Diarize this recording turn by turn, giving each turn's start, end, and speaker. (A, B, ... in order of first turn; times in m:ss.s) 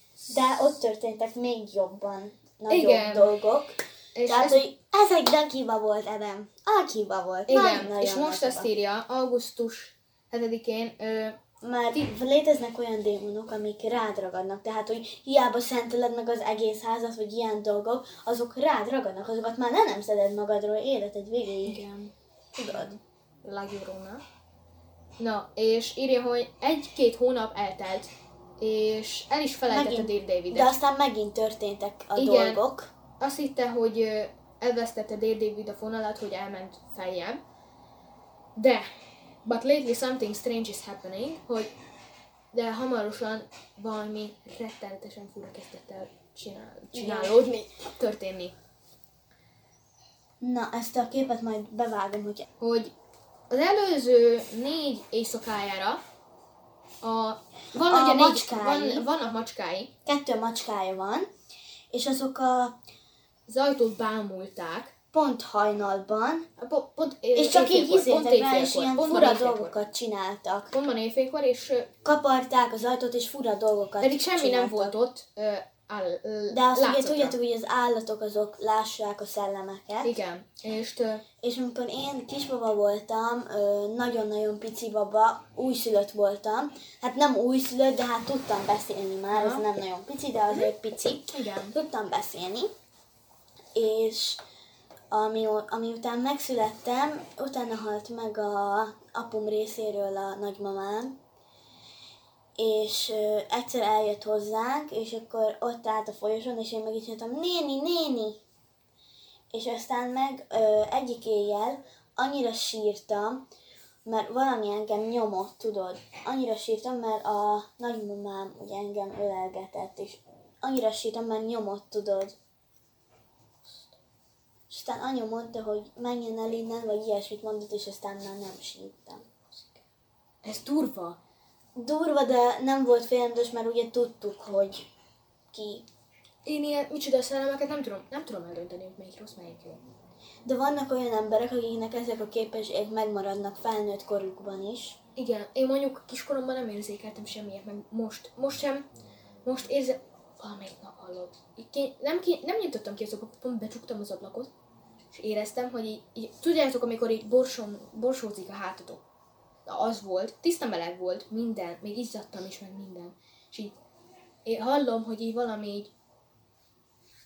0:00.3-0:08.7 A
0:02.7-0:03.3 B
0:04.1-0:04.7 B
0:07.5-0:11.4 B
0:11.6-0:21.8 A
0:21.6-0:24.2 B
0:22.6-0:22.9 A
0:25.2-0:30.7 B
0:29.7-0:32.9 A
0:32.2-0:32.6 B
0:33.2-0:37.4 B
0:38.6-0:38.9 B
0:39.4-0:41.7 B
0:42.5-0:48.5 B
0:46.9-0:47.6 A
0:50.4-0:52.4 A
0:52.6-0:52.9 B
0:53.5-0:56.0 B
0:57.0-0:59.9 B
0:57.8-0:59.0 A
1:00.0-1:01.3 A
1:01.9-1:02.8 A
1:03.5-1:04.9 B
1:05.1-1:06.5 A
1:06.6-1:09.8 B
1:07.3-1:10.7 A
1:10.7-1:11.9 B
1:12.0-1:14.9 A
1:14.0-1:17.4 B
1:16.5-1:20.2 A
1:20.0-1:21.2 B
1:21.4-1:32.7 A
1:29.3-1:29.6 B
1:31.3-1:31.7 B
1:33.7-1:34.4 A
1:35.1-1:41.2 A
1:42.6-1:48.4 A
1:49.5-1:53.4 A
1:54.0-2:02.3 A
2:04.7-2:09.8 A
2:10.4-2:11.2 B
2:11.8-2:14.9 A
2:15.5-2:15.9 A
2:16.4-2:19.8 B
2:20.4-2:25.0 A
2:25.2-2:28.9 B
2:29.4-2:34.5 B
2:35.1-2:39.0 B
2:39.6-2:43.7 B
2:44.4-2:45.9 B